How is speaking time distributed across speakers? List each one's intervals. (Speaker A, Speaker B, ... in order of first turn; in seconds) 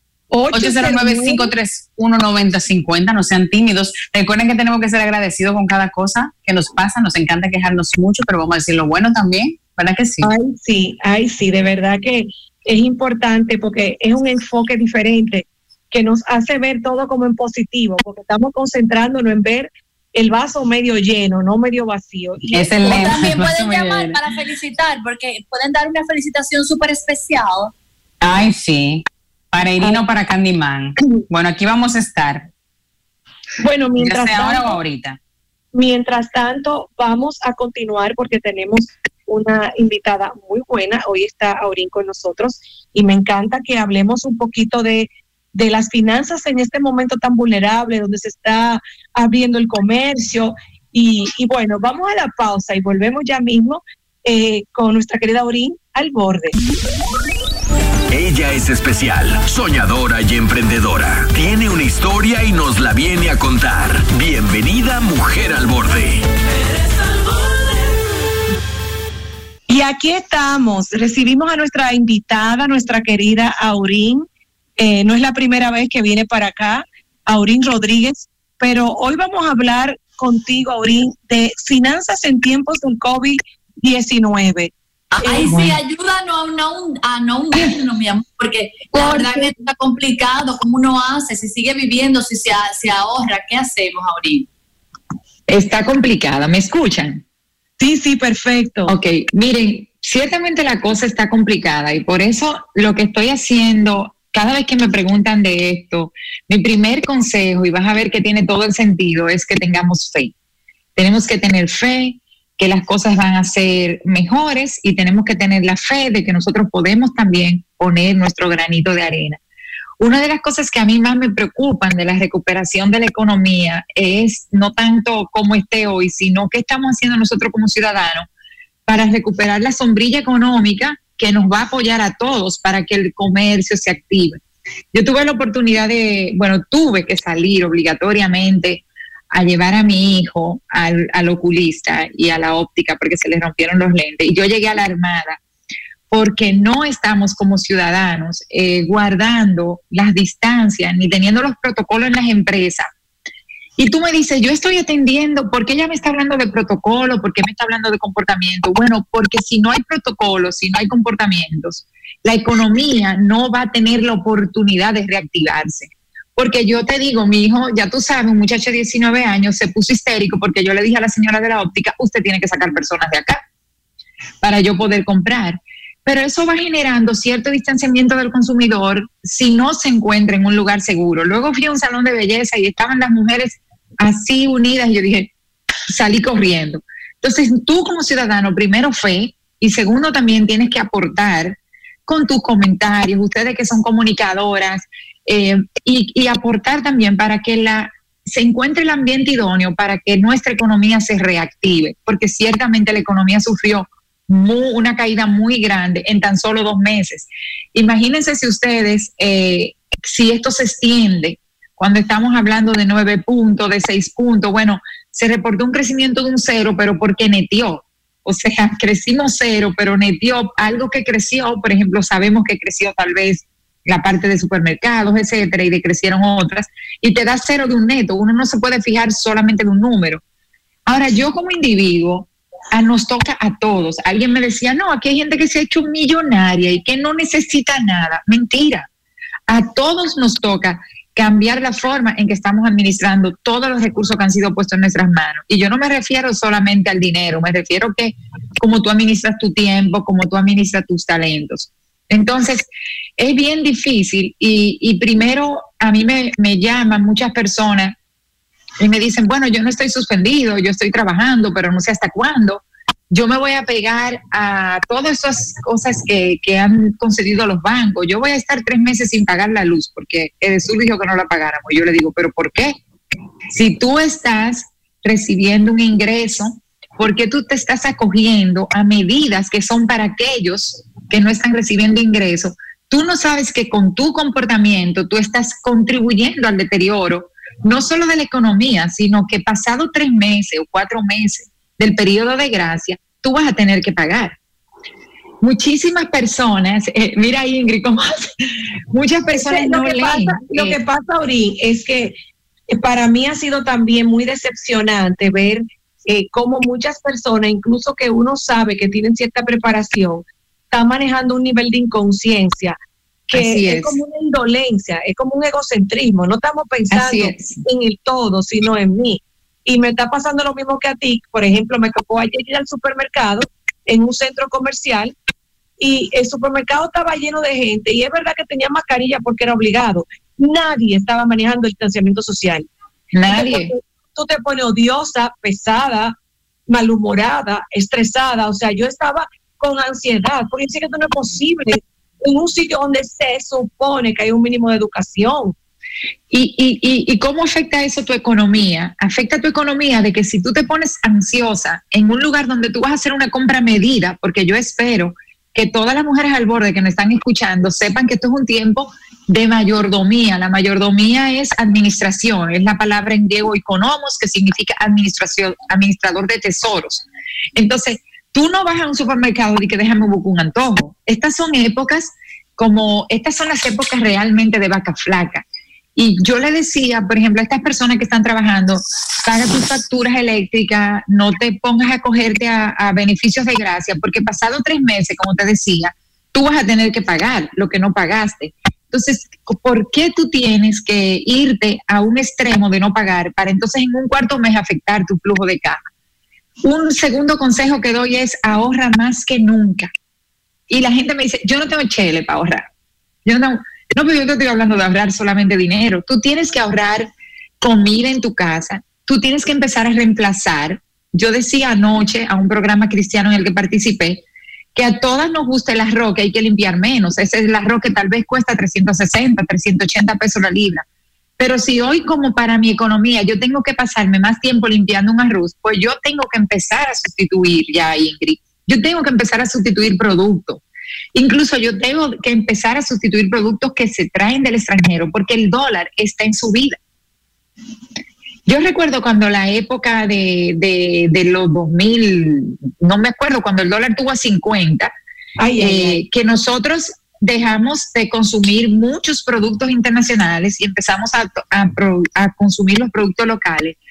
Speaker A: 0.3-1.5, 10.2-23.2, 33.6-34.8, 35.7-56.5, 69.7-74.2, 74.8-84.7, 85.3-85.7, 88.9-89.5, 97.8-98.9, 299.3-302.1, 302.7-312.8, 313.3-325.1, 325.8-332.7, 333.3-336.1, 336.7-345.5, 445.4-446.0
Speaker B: 0.5-10.3, 22.5-24.2, 28.2-32.5, 34.0-35.2
Speaker C: 22.8-27.7, 85.2-94.5
Speaker D: 58.1-66.2
Speaker E: 95.5-97.2, 98.9-110.3, 111.0-119.4, 120.0-128.3, 128.9-134.4, 134.9-145.4, 146.1-152.9, 153.8-173.4, 174.4-185.3, 185.9-230.2, 230.9-238.9, 239.5-257.9, 258.8-272.8, 273.5-294.4, 295.4-298.3, 298.9-300.8, 313.3-314.0, 316.9-317.6, 333.1-333.7, 346.3-375.4, 375.9-395.8, 396.6-399.9, 400.7-402.7, 403.2-407.1, 407.6-414.2, 414.7-420.8, 421.4-430.6, 431.1-436.8, 438.5-444.9, 445.6-453.8